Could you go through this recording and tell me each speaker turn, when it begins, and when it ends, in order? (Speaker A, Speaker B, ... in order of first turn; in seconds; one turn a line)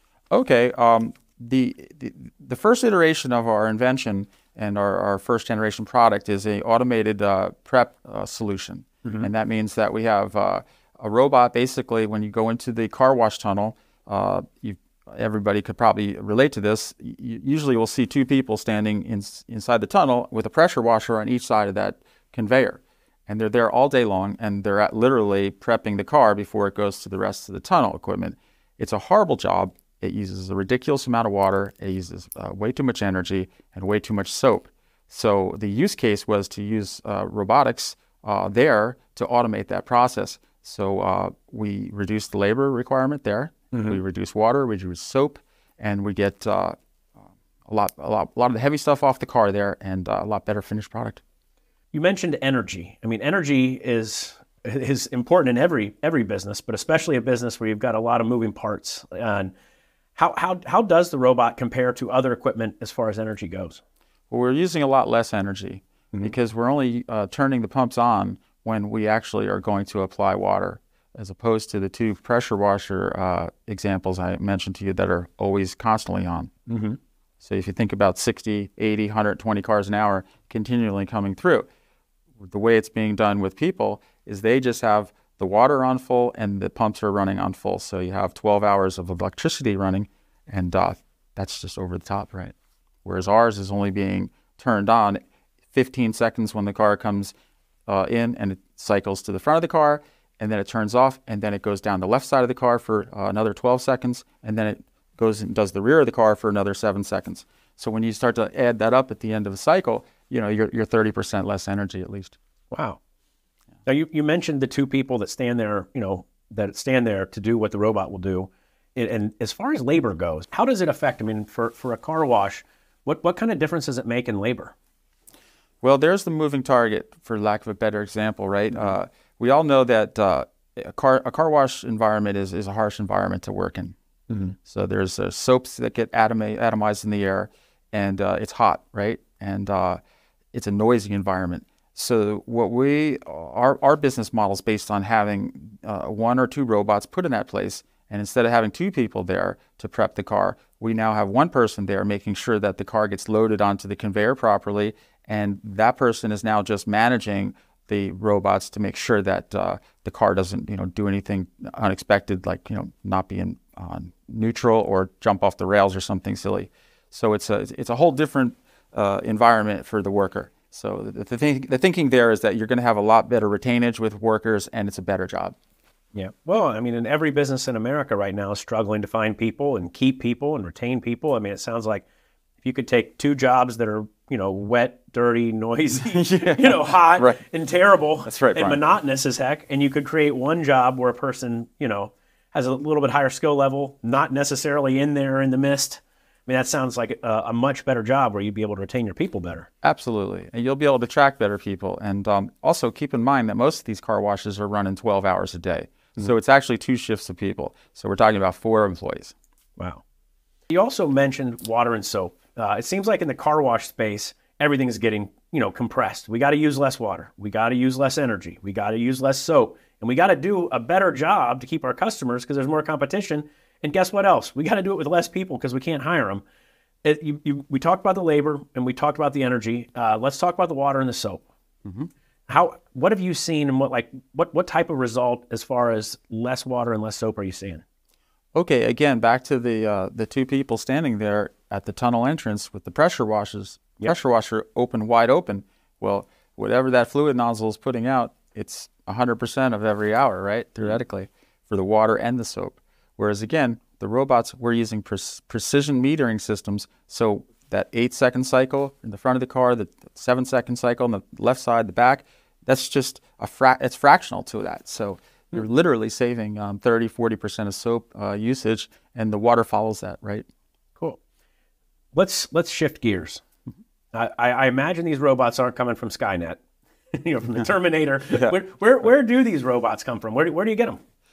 Speaker A: 0.3-46.8
Speaker B: 43.7-44.0
Speaker A: 47.7-51.2
Speaker B: 51.9-59.5
Speaker B: 60.2-63.8
Speaker A: 64.3-76.5
Speaker B: 76.7-77.0
Speaker A: 77.4-81.7
Speaker A: 82.4-92.5
Speaker A: 93.0-95.2
Speaker A: 95.7-97.3
Speaker A: 97.9-112.4
Speaker B: 112.7-113.0
Speaker B: 113.9-124.7
Speaker A: 125.8-133.9
Speaker B: 134.3-134.6
Speaker A: 134.7-140.0
Speaker A: 140.5-175.6
Speaker B: 176.1-182.1
Speaker B: 182.6-199.7
Speaker A: 186.0-187.4
Speaker A: 188.2-188.8
Speaker A: 199.8-209.3
Speaker B: 210.7-226.4
Speaker B: 227.0-231.4
Speaker A: 231.8-232.1
Speaker B: 232.5-237.8
Speaker A: 238.6-270.5
Speaker B: 272.1-273.4
Speaker B: 274.1-276.6
Speaker B: 277.1-281.0